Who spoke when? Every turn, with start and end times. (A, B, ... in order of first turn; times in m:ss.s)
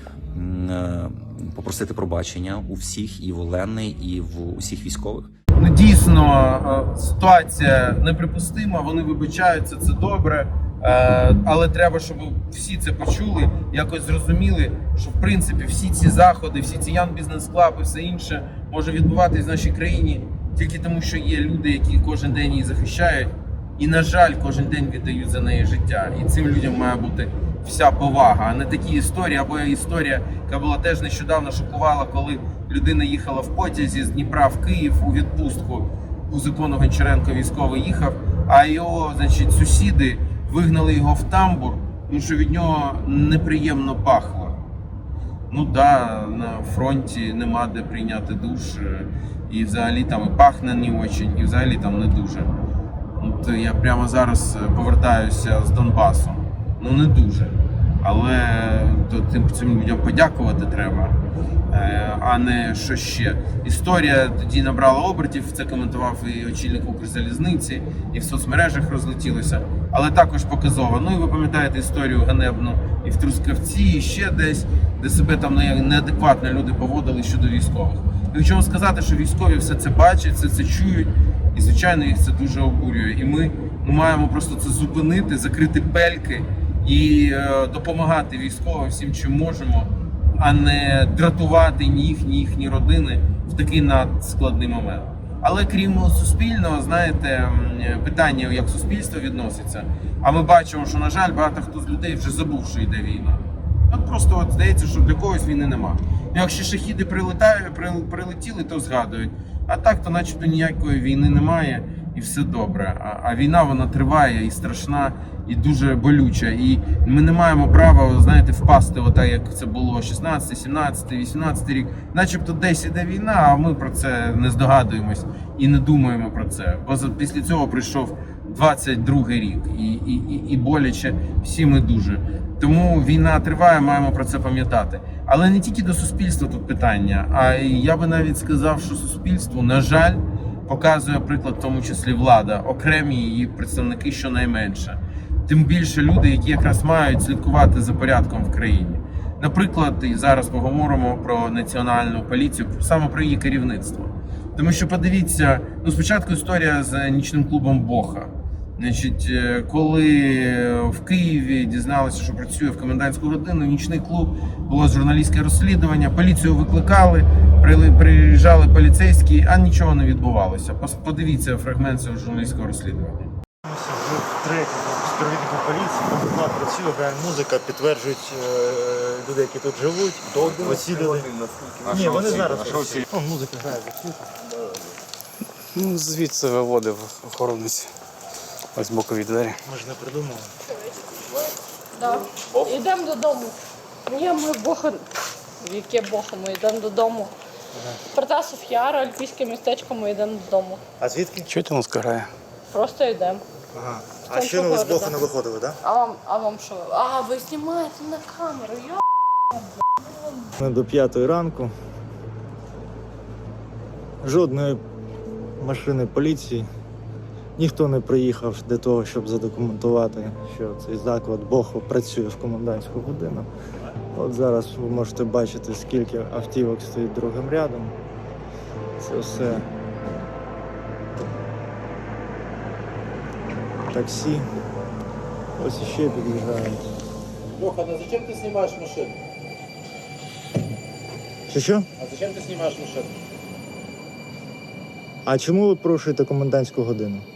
0:00.3-0:05.3 A
0:05.6-0:44.6 B
0:45.5-0:52.5 B
0:53.2-1:01.2 B
1:01.7-2:53.3 B
2:53.6-3:04.2 C
3:00.5-3:01.1 D
3:01.9-3:03.0 D
3:05.7-3:07.9 E
3:08.7-3:09.6 E
3:09.6-3:10.5 C
3:12.0-3:15.1 F
3:15.6-3:17.3 F
3:18.1-3:20.8 F
3:21.0-3:21.5 C
3:21.5-3:22.3 E
3:22.7-3:23.4 F
3:23.7-3:25.8 C
3:24.3-3:25.2 F
3:25.8-3:29.0 F
3:30.6-3:31.7 C
3:34.2-3:34.8 C
3:35.6-3:36.6 C
3:37.6-3:43.5 C
3:44.1-3:47.9 C
3:49.0-3:49.6 C
3:53.9-3:54.4 C
3:55.6-3:56.9 C
3:57.6-3:59.2 D
4:01.5-4:01.9 C
4:02.0-4:03.1 D
4:05.2-4:07.2 C